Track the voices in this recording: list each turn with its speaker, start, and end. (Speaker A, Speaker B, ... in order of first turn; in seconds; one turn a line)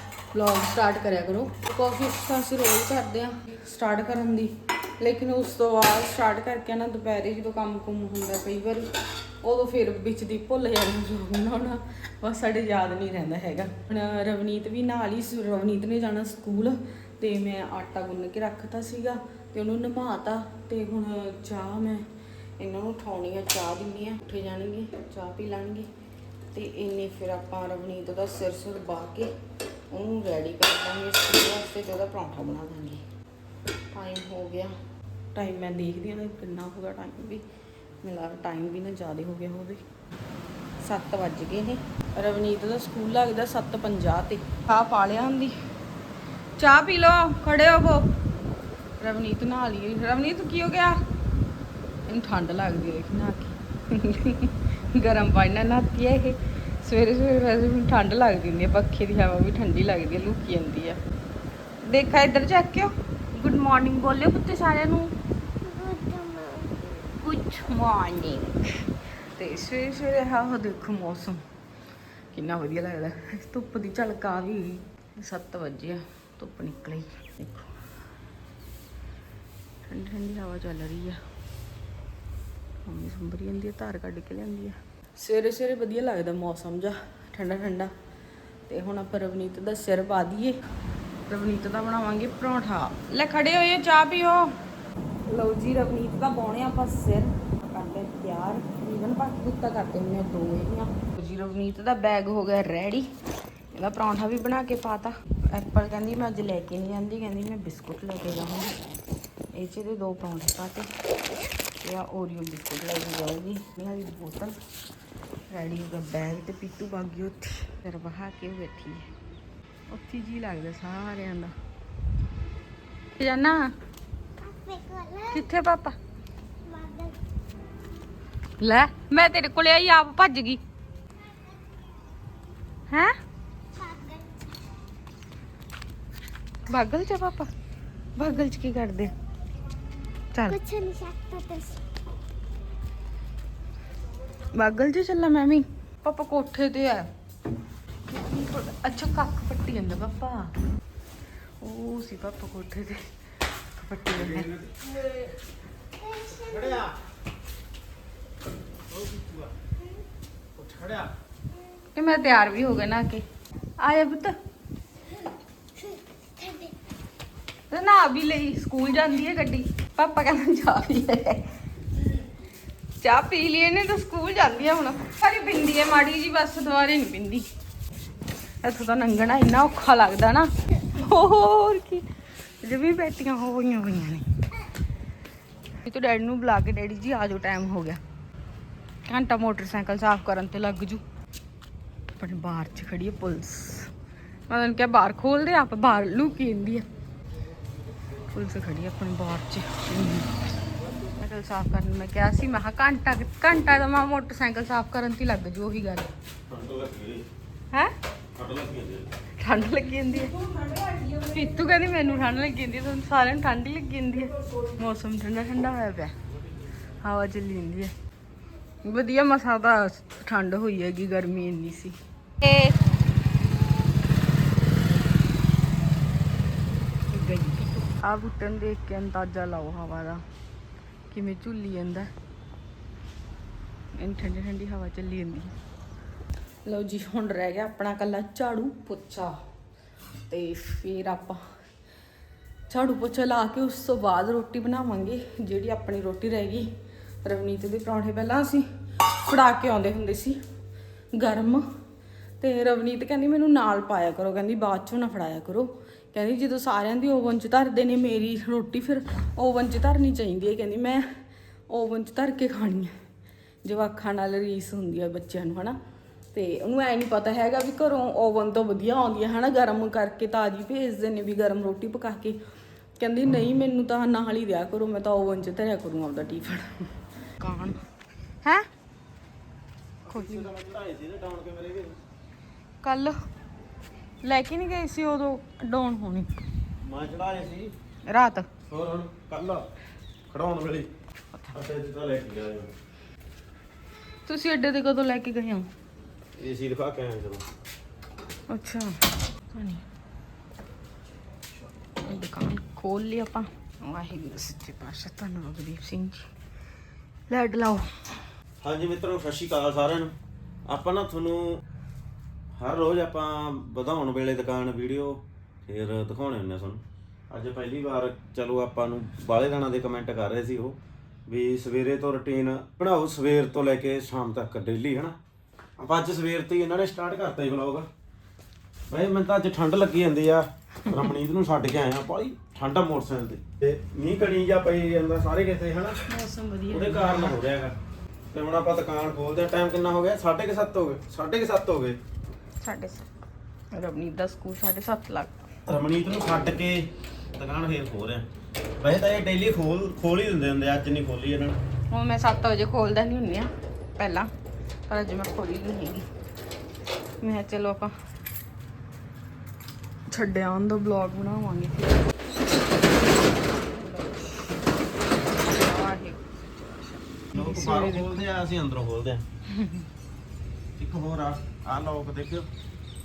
Speaker A: 0.3-8.9
Speaker A: 9.4-22.1
Speaker A: 22.6-25.9
Speaker A: 26.5-29.3
Speaker A: 29.9-33.0
Speaker A: 33.9-34.7
Speaker A: 35.3-37.4
Speaker A: 38.0-39.8
Speaker A: 40.8-45.5
Speaker A: 46.6-48.1
Speaker A: 49.0-51.0
Speaker A: 52.1-61.0
Speaker A: 61.8-65.1
Speaker B: 65.6-66.9
Speaker A: 67.2-68.8
Speaker A: 69.3-71.4
Speaker A: 72.3-77.7
Speaker A: 79.9-81.2
Speaker A: 82.8-87.9
Speaker A: 88.7-90.6
Speaker A: 91.3-94.5
Speaker A: 95.3-103.1
Speaker A: 103.7-108.8
Speaker A: 109.5-110.9
Speaker A: 111.8-114.5
Speaker A: 115.5-119.1
Speaker A: 119.9-121.5
Speaker A: 123.2-123.7
Speaker B: 124.4-125.5
Speaker A: 125.3-126.0
Speaker B: 126.7-127.2
Speaker A: 128.6-130.6
Speaker A: 132.9-133.1
Speaker B: 133.8-134.3
Speaker A: 136.7-137.5
Speaker A: 138.2-139.1
Speaker B: 140.5-141.8
Speaker A: 144.5-147.1
Speaker A: 148.1-150.6
Speaker A: 151.6-153.1
Speaker A: 153.8-154.5
Speaker C: 154.2-154.9
Speaker B: 156.0-156.9
Speaker C: 156.5-156.9
Speaker C: 158.9-159.5
Speaker C: 160.6-161.1
Speaker A: 161.9-163.2
Speaker A: 163.8-164.4
Speaker B: 165.8-166.7
Speaker A: 167.7-171.5
Speaker A: 173.0-177.5
Speaker A: 178.6-182.1
Speaker A: 182.6-184.2
Speaker A: 185.8-188.0
Speaker A: 189.1-191.0
Speaker A: 192.1-193.9
Speaker A: 194.5-196.8
Speaker A: 198.3-200.4
Speaker A: 201.1-206.1
Speaker C: 206.5-207.2
Speaker C: 208.3-209.1
Speaker A: 209.4-210.4
Speaker A: 211.1-216.1
Speaker A: 217.0-217.9
Speaker A: 218.8-222.8
Speaker A: 227.1-230.2
Speaker A: 231.1-232.1
Speaker A: 234.0-235.5
Speaker A: 236.7-239.3
Speaker A: 240.3-241.4
Speaker A: 242.7-246.7
Speaker A: 247.2-250.4
Speaker A: 251.1-251.6
Speaker A: 252.4-261.1
Speaker A: 261.7-262.9
Speaker A: 263.6-265.8
Speaker A: 266.3-272.4
Speaker A: 273.0-277.8
Speaker C: 280.0-282.0
Speaker A: 280.1-280.5
Speaker A: 282.8-283.2
Speaker A: 284.2-286.3
Speaker C: 286.8-287.7
Speaker A: 288.1-288.5
Speaker C: 288.7-289.6
Speaker C: 290.3-290.9
Speaker C: 291.5-292.7
Speaker A: 294.2-295.7
Speaker C: 296.4-297.4
Speaker A: 298.5-299.8
Speaker A: 302.0-306.3
Speaker A: 307.3-308.1
Speaker C: 308.6-310.1
Speaker C: 310.7-311.6
Speaker C: 312.6-325.1
Speaker C: 325.8-327.9
Speaker C: 328.9-336.0
Speaker A: 336.1-337.4
Speaker C: 336.7-337.8
Speaker C: 338.3-342.0
Speaker A: 342.6-343.1
Speaker A: 343.7-345.5
Speaker C: 345.6-348.3
Speaker C: 348.8-351.6
Speaker A: 351.9-354.3
Speaker A: 354.9-356.1
Speaker A: 357.2-357.9
Speaker A: 360.1-362.1
Speaker A: 363.3-364.6
Speaker A: 365.2-368.3
Speaker C: 367.3-369.2
Speaker A: 369.5-369.9
Speaker C: 370.8-372.5